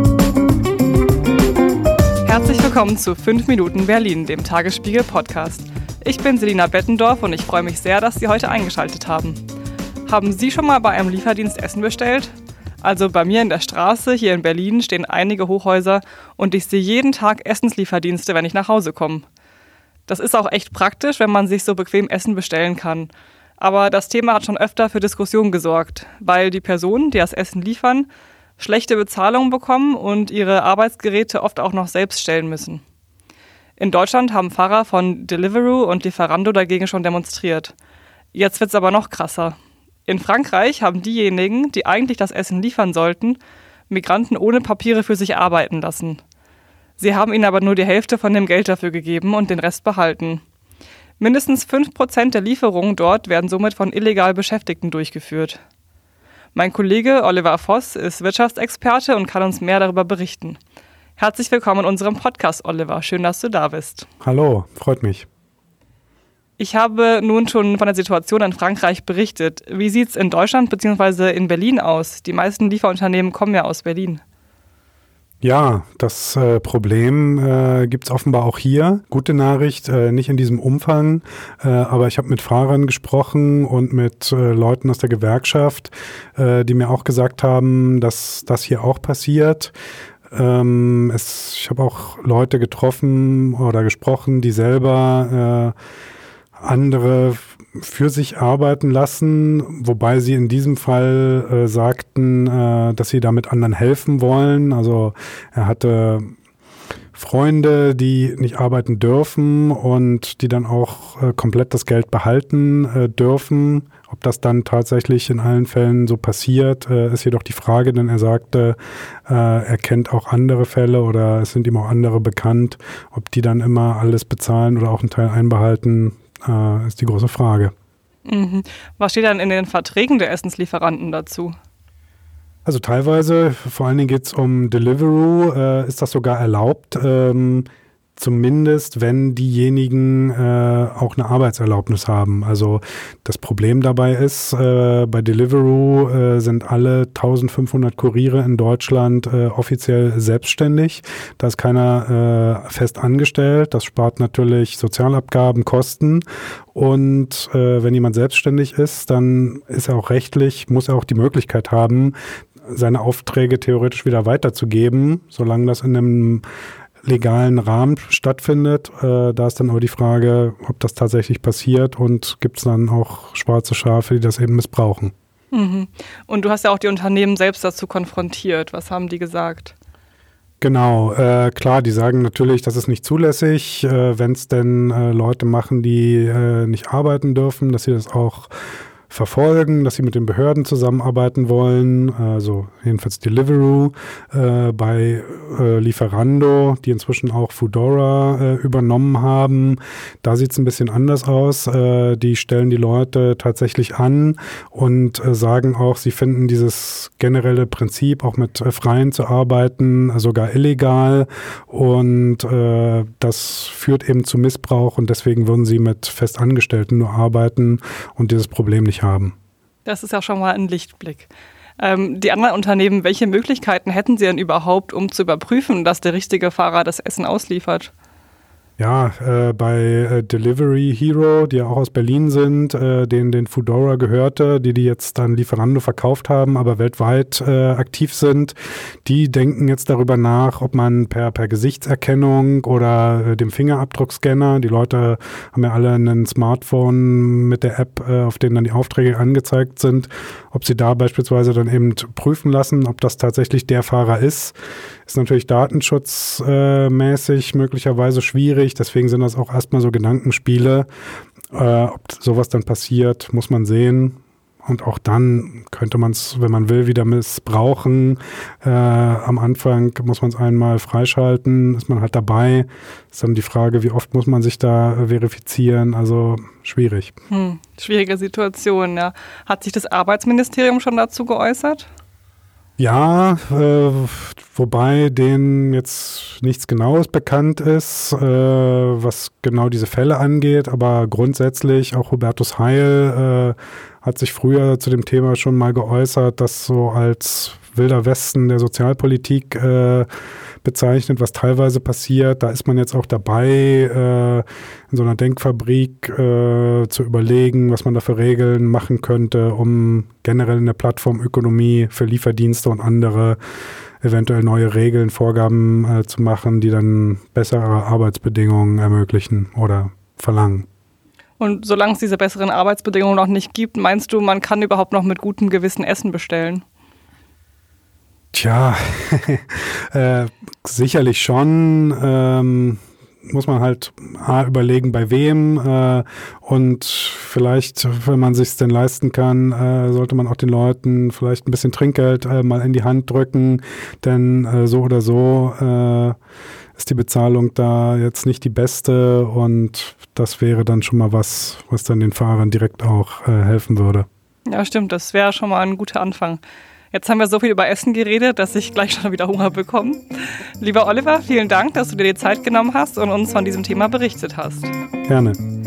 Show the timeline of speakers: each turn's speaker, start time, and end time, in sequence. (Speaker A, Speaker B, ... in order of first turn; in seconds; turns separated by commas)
Speaker A: 2.2-9.4, Speaker A: 10.1-19.2, Speaker A: 20.1-32.8, Speaker A: 33.8-37.7, Speaker A: 38.3-46.2, Speaker A: 47.0-50.4, Speaker A: 51.2-55.6, Speaker A: 56.5-60.6, Speaker A: 61.2-64.1, Speaker B: 64.2-65.3, Speaker A: 66.6-74.2, Speaker B: 75.4-89.7, Speaker B: 90.3-95.7, Speaker B: 96.6-106.3, Speaker B: 107.1-127.7, Speaker A: 128.2-131.5, Speaker B: 132.7-166.4, Speaker B: 167.0-175.1, Speaker A: 175.5-179.7, Speaker B: 180.6-188.5, Speaker B: 189.1-219.3, Speaker A: 219.8-227.9, Speaker B: 228.8-254.6, Speaker B: 255.1-260.9, Speaker B: 261.5-277.1, Speaker A: 277.3-281.9, Speaker B: 282.8-300.1, Speaker B: 300.6-313.4, Speaker B: 314.0-320.6, Speaker A: 321.4-326.6, Speaker B: 328.3-346.1, Speaker B: 346.8-354.1, Speaker A: 354.5-356.4, Speaker A: 356.9-364.7, Speaker B: 365.1-365.4